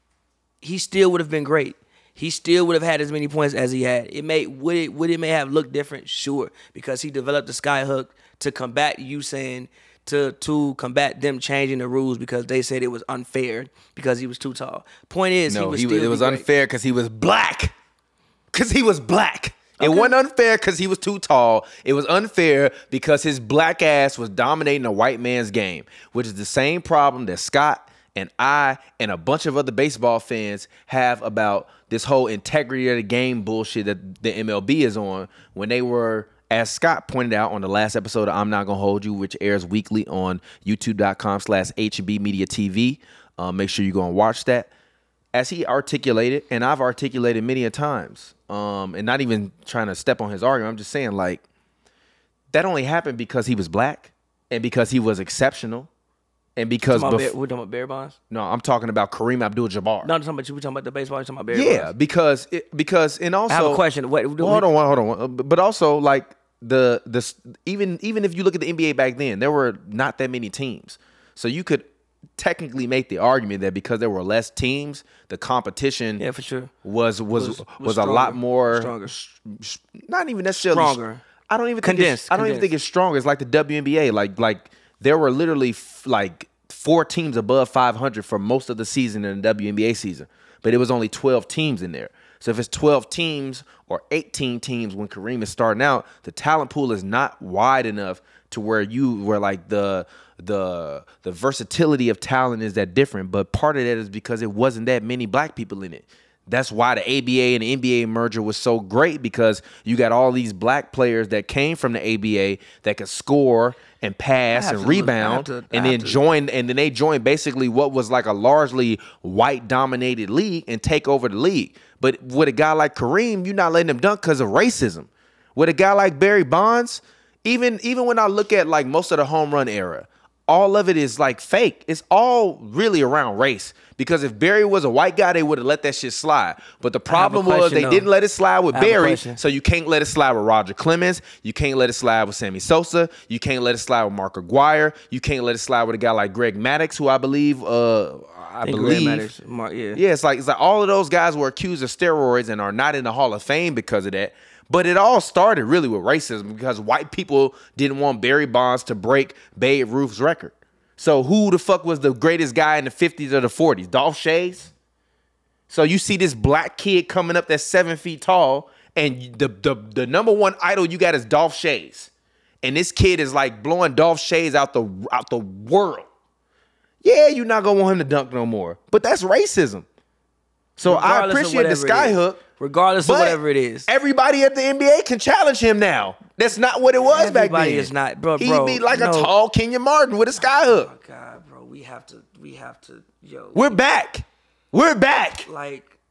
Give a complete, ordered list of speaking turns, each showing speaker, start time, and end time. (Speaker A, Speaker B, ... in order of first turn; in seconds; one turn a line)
Speaker A: 0.6-16.5
Speaker B: 15.5-17.7
Speaker B: 18.5-44.7
Speaker A: 19.8-20.1
Speaker B: 45.3-51.4
Speaker B: 52.5-55.9
Speaker B: 56.6-57.3
Speaker A: 56.9-58.2
Speaker B: 58.3-60.1
Speaker A: 60.0-61.9
Speaker B: 61.5-63.8
Speaker A: 63.5-64.7
Speaker B: 64.4-76.2
Speaker A: 76.2-76.7
Speaker B: 76.8-149.3
Speaker A: 77.3-79.1
Speaker A: 80.5-81.2
Speaker A: 81.8-82.7
Speaker A: 114.5-116.2
Speaker A: 137.1-138.1
Speaker A: 138.7-139.4
Speaker A: 148.6-150.0
Speaker B: 149.9-164.7
Speaker B: 165.7-172.1
Speaker B: 172.6-176.1
Speaker B: 177.0-179.8
Speaker B: 180.8-182.4
Speaker A: 180.8-183.9
Speaker B: 183.0-190.9
Speaker A: 187.1-189.3
Speaker A: 190.4-193.8
Speaker B: 193.5-195.5
Speaker A: 195.4-195.9